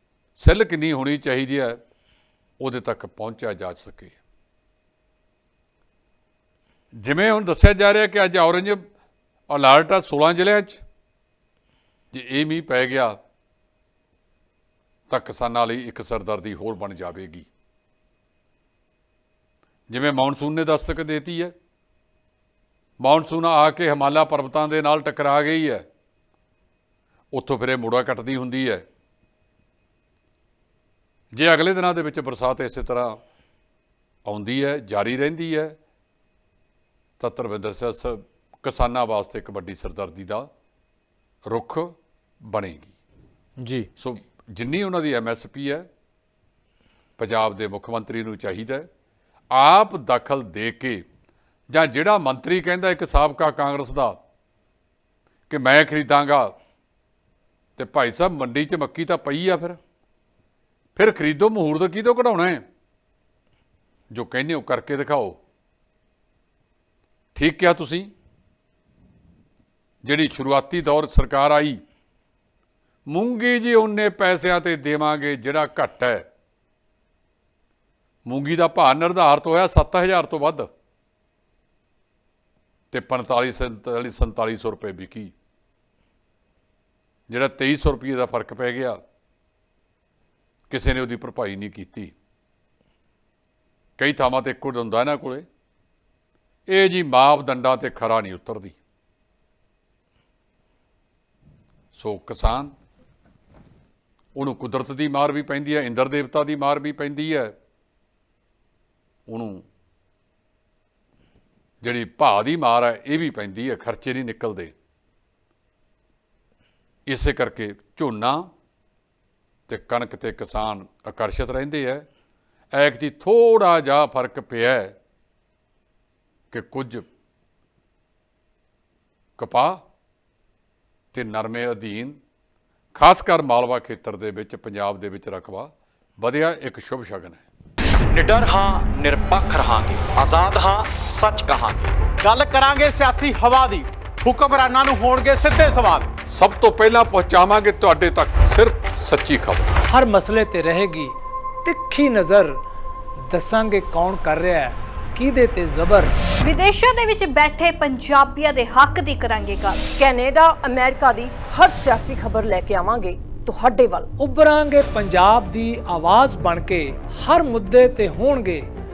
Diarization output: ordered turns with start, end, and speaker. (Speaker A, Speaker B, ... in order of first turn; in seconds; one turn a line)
Speaker A: 0.4-1.8
Speaker A: 2.6-4.1
Speaker A: 7.0-8.8
Speaker A: 9.5-10.8
Speaker A: 12.1-13.2
Speaker A: 15.1-17.5
Speaker A: 19.9-21.5
Speaker A: 23.0-25.9
Speaker A: 27.3-28.8
Speaker A: 31.3-33.2
Speaker A: 34.3-35.8
Speaker A: 37.2-40.5
Speaker A: 41.5-41.9
Speaker A: 42.5-42.9
Speaker B: 43.6-43.9
Speaker A: 44.0-45.9
Speaker A: 47.2-48.9
Speaker A: 49.5-51.0
Speaker A: 51.7-54.2
Speaker A: 55.5-56.5
Speaker A: 57.8-59.8
Speaker A: 61.0-62.6
Speaker A: 64.1-65.4
Speaker A: 67.4-68.1
Speaker A: 70.0-71.8
Speaker A: 73.1-76.3
Speaker A: 78.3-80.7
Speaker A: 82.9-85.3
Speaker A: 87.3-89.0
Speaker A: 90.7-92.2
Speaker A: 94.0-95.5
Speaker A: 96.7-98.8
Speaker A: 101.9-102.7
Speaker A: 104.4-107.5
Speaker A: 109.3-109.6
Speaker A: 111.8-114.7
Speaker A: 117.1-118.5
Speaker A: 119.7-122.0
Speaker A: 122.7-125.0
Speaker A: 126.5-127.1
Speaker A: 129.4-129.8
Speaker A: 131.1-132.2
Speaker A: 133.0-137.4
Speaker B: 138.1-141.9
Speaker C: 142.2-146.1
Speaker A: 146.3-149.7
Speaker D: 149.9-151.1
Speaker D: 151.7-152.6
Speaker D: 153.3-156.1
Speaker E: 156.4-159.8
Speaker F: 160.0-164.1
Speaker D: 164.1-168.7